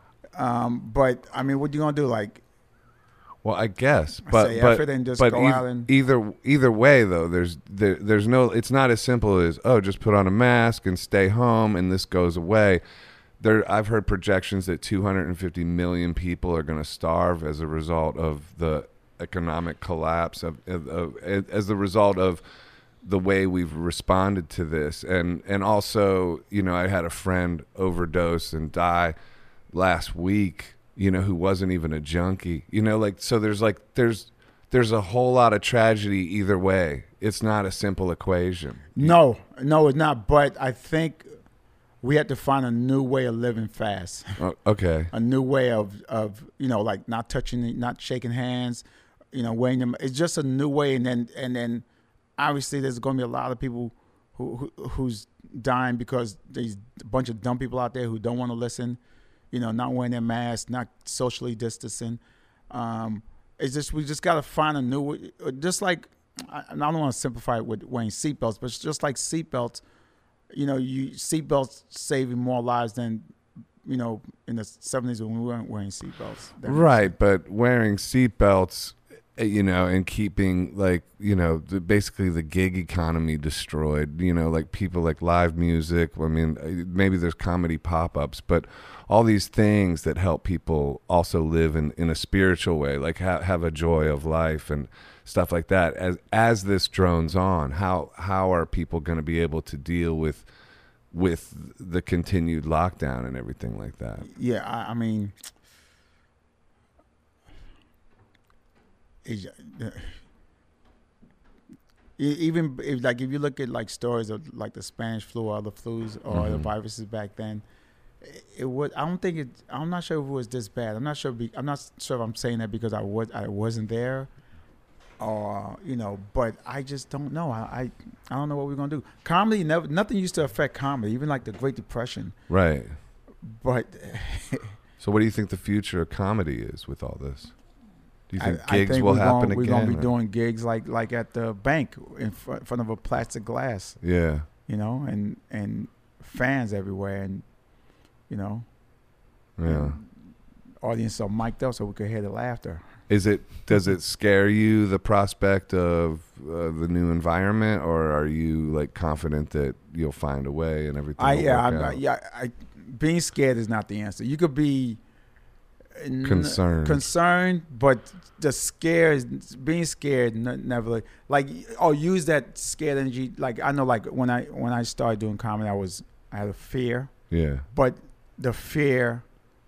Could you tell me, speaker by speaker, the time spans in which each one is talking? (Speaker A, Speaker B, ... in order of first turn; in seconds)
Speaker A: 0.3-2.4, 4.3-5.9, 39.0-41.3, 42.0-44.4, 45.1-51.9, 52.4-59.0, 59.5-62.2, 62.7-69.8, 70.5-73.2, 73.8-77.1, 104.2-105.3, 109.2-110.2, 112.2-117.6, 118.2-124.3, 125.2-132.4, 133.4-134.7, 138.4-144.0, 144.7-147.4, 148.3-148.7, 149.7-150.0, 150.8-152.8, 161.2-165.0, 166.0-177.1, 177.7-179.2
Speaker B: 3.4-12.8, 13.4-22.4, 23.0-29.1, 29.7-39.2, 44.4-45.1, 76.7-100.5, 101.1-104.3, 116.3-116.7, 132.5-132.9, 135.0-137.5, 138.3-140.1, 144.0-144.5, 149.6-150.0, 153.1-162.0, 166.2-167.1, 177.3-177.7